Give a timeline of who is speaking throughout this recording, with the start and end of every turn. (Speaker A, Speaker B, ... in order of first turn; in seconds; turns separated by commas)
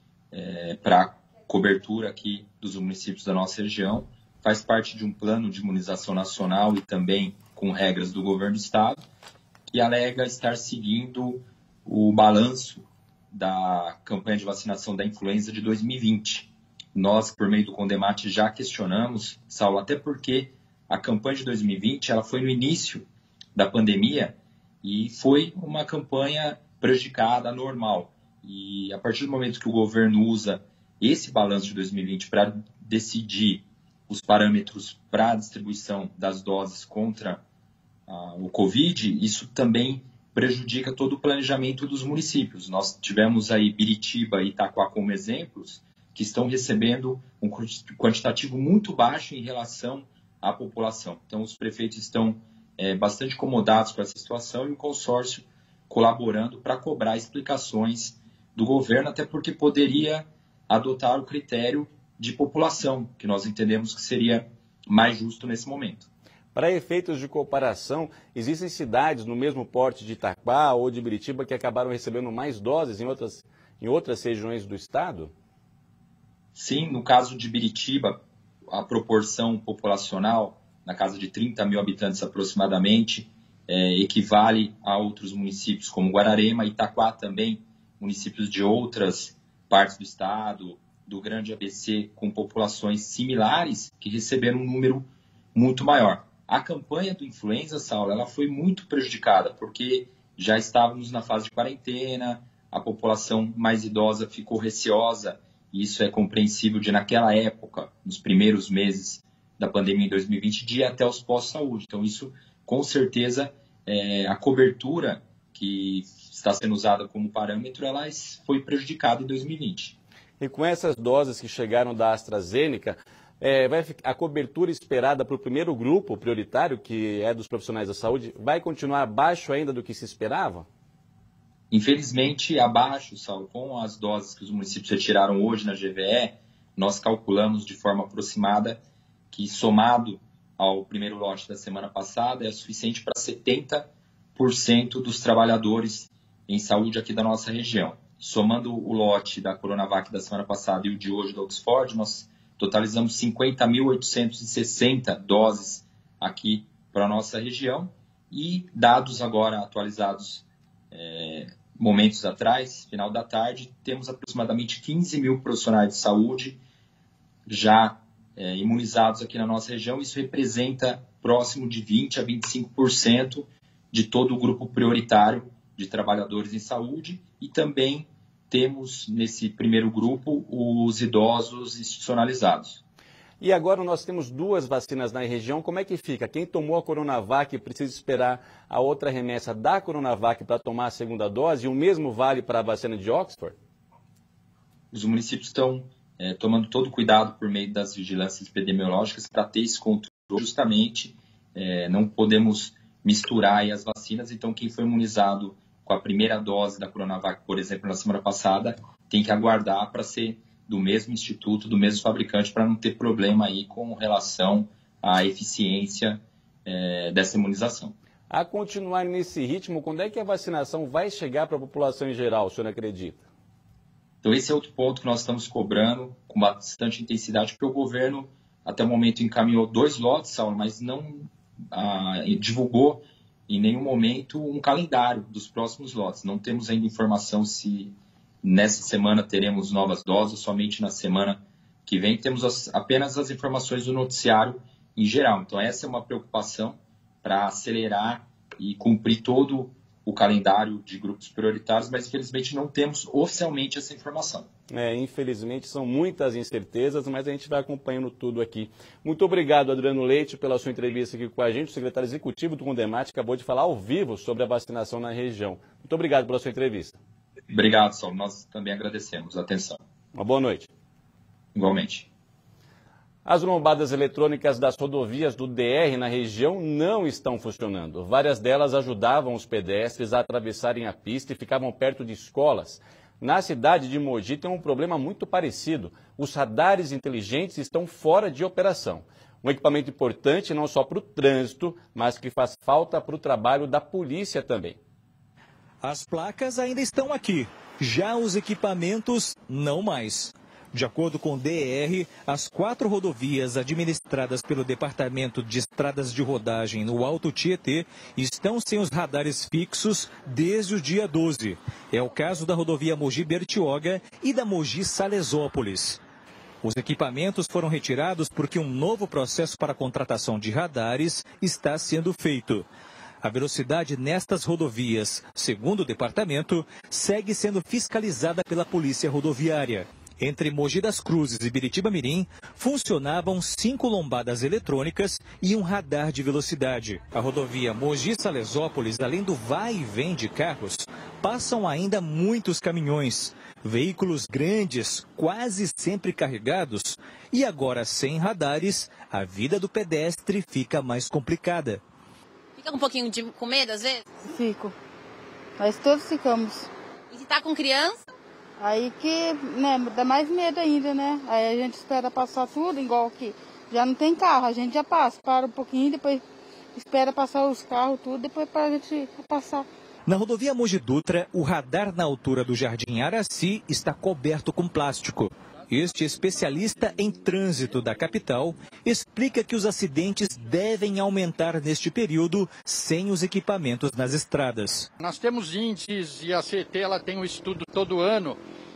Speaker A: 0.3-9.0, Speaker A: 9.7-37.4, Speaker A: 38.1-66.1, Speaker B: 66.5-75.3, Speaker A: 76.6-120.0, Speaker B: 120.4-130.7, Speaker A: 131.7-138.8, Speaker A: 139.3-166.6, Speaker A: 167.5-182.8, Speaker B: 183.4-193.6, Speaker A: 194.9-217.9, Speaker B: 218.3-223.2, Speaker A: 224.2-254.5, Speaker B: 254.7-267.0, Speaker A: 267.5-269.8, Speaker B: 270.1-270.7, Speaker A: 271.6-272.1, Speaker B: 273.2-294.8, Speaker C: 295.8-316.0, Speaker C: 316.6-322.7, Speaker C: 323.2-351.8, Speaker D: 352.6-354.0, Speaker E: 354.2-354.8, Speaker E: 355.6-356.7, Speaker D: 357.1-358.0, Speaker E: 358.6-366.2, Speaker E: 366.8-369.7, Speaker C: 370.1-384.9, Speaker F: 385.0-388.4